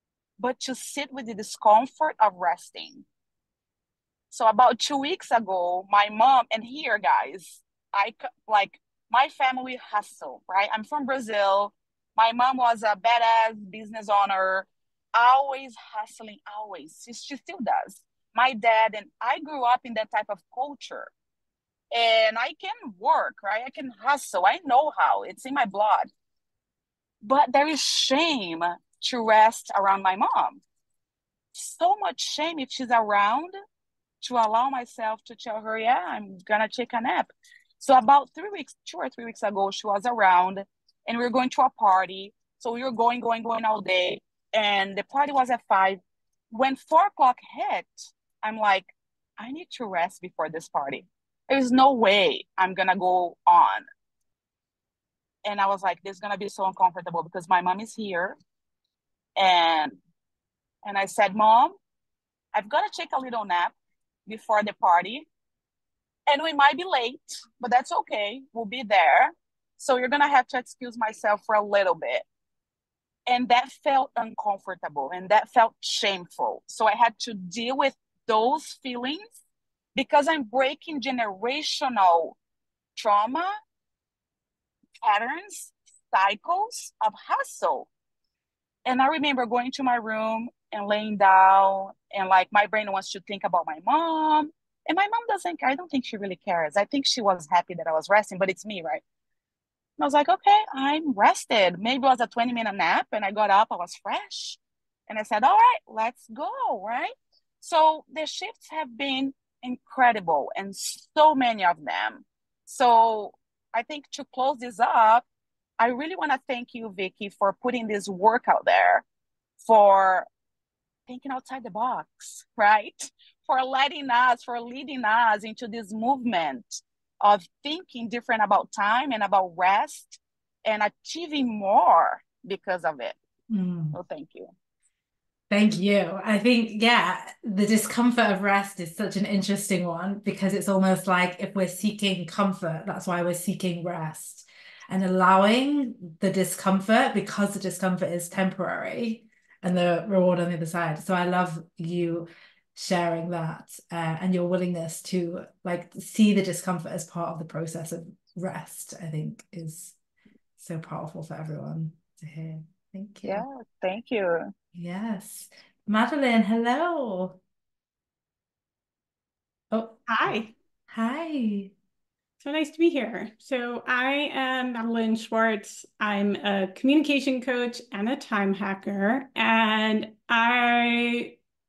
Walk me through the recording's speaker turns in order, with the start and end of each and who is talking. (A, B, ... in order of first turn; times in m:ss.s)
0:00.4-0:03.0 A
0:04.3-0:21.1 A
0:21.9-0:26.1 A
0:27.2-0:30.6 A
0:31.6-0:33.5 A
0:34.2-0:46.0 A
0:46.5-0:53.8 A
0:55.4-0:58.4 A
0:59.4-1:00.0 A
1:00.8-1:01.8 A
1:02.5-1:03.7 A
1:04.3-1:05.2 A
1:06.3-1:12.2 A
1:13.3-1:19.3 A
1:20.0-1:22.4 A
1:23.0-1:23.5 A
1:25.0-1:27.9 A
1:28.8-1:39.0 A
1:40.0-1:55.2 A
1:55.8-1:59.0 A
1:59.6-2:00.3 A
2:01.1-2:13.2 A
2:13.5-2:14.0 B
2:13.9-2:14.5 A
2:15.5-2:40.0 B
2:40.6-2:43.5 B
2:43.2-2:44.5 A
2:44.8-2:47.4 B
2:49.7-2:50.1 B
2:50.1-2:50.5 C
2:50.9-2:51.7 B
2:52.4-3:01.4 C